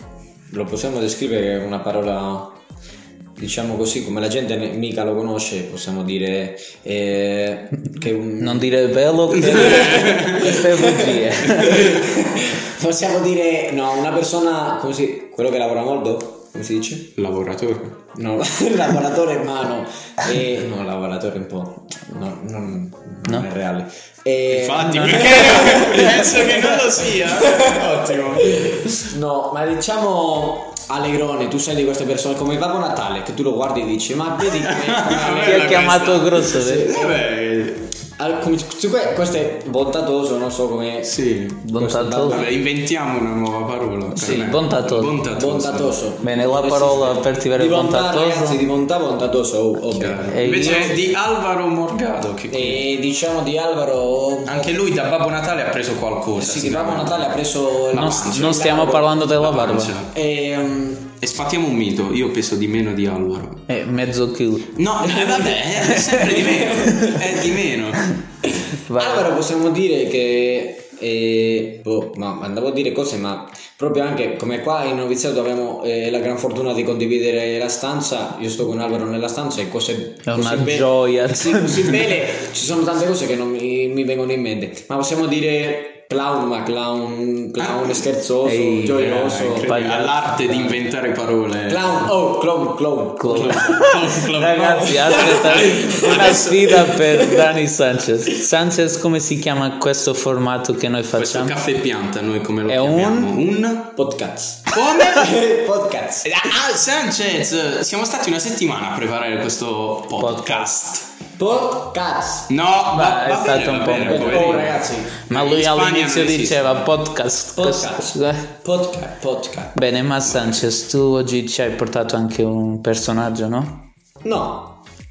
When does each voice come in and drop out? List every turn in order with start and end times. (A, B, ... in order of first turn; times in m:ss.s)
0:00.5-0:02.6 A
0:03.4-0:08.8 A
0:08.4-0:11.9 B
0:09.3-0:17.1 A
0:09.4-0:10.5 C
0:17.2-0:18.0 C
0:18.1-0:37.2 A
0:24.5-0:29.1 C
0:24.8-0:25.3 B
0:34.5-0:37.8 C
0:35.4-0:36.9 B
0:38.2-0:41.2 A
0:41.0-0:41.6 C
0:41.6-0:42.4 B
0:41.7-0:42.6 A
0:42.3-0:46.0 C
0:44.1-0:45.1 B
0:45.3-0:51.1 A
0:46.2-0:48.6 B
0:49.9-0:52.8 C
0:50.3-0:51.0 B
0:52.5-0:54.7 A
0:54.4-0:57.3 C
0:56.4-0:59.1 A
0:57.9-0:58.6 C
0:57.9-0:59.9 B
0:59.4-1:00.1 C
1:00.1-1:01.1 A
1:01.2-1:03.6 C
1:03.7-1:04.8 B
1:04.7-1:08.1 C
1:05.2-1:05.5 A
1:05.9-1:06.3 B
1:08.6-1:29.9 A
1:08.8-1:09.3 B
1:20.2-1:22.0 B
1:27.6-1:28.0 C
1:28.4-1:30.3 B
1:28.9-1:32.1 C
1:31.7-1:33.7 A
1:33.2-1:41.6 B
1:33.3-1:37.1 C
1:35.0-1:36.3 A
1:41.2-1:44.0 C
1:42.7-1:43.3 B
1:44.0-1:46.3 A
1:44.7-1:45.4 C
1:46.2-1:51.1 C
1:50.2-1:50.7 B
1:51.4-1:52.5 A
1:52.5-1:56.8 C
1:52.9-1:54.7 B
1:53.9-1:55.2 A
1:55.3-1:58.5 B
1:57.5-1:59.8 A
1:59.7-2:03.8 B
2:04.2-2:04.8 A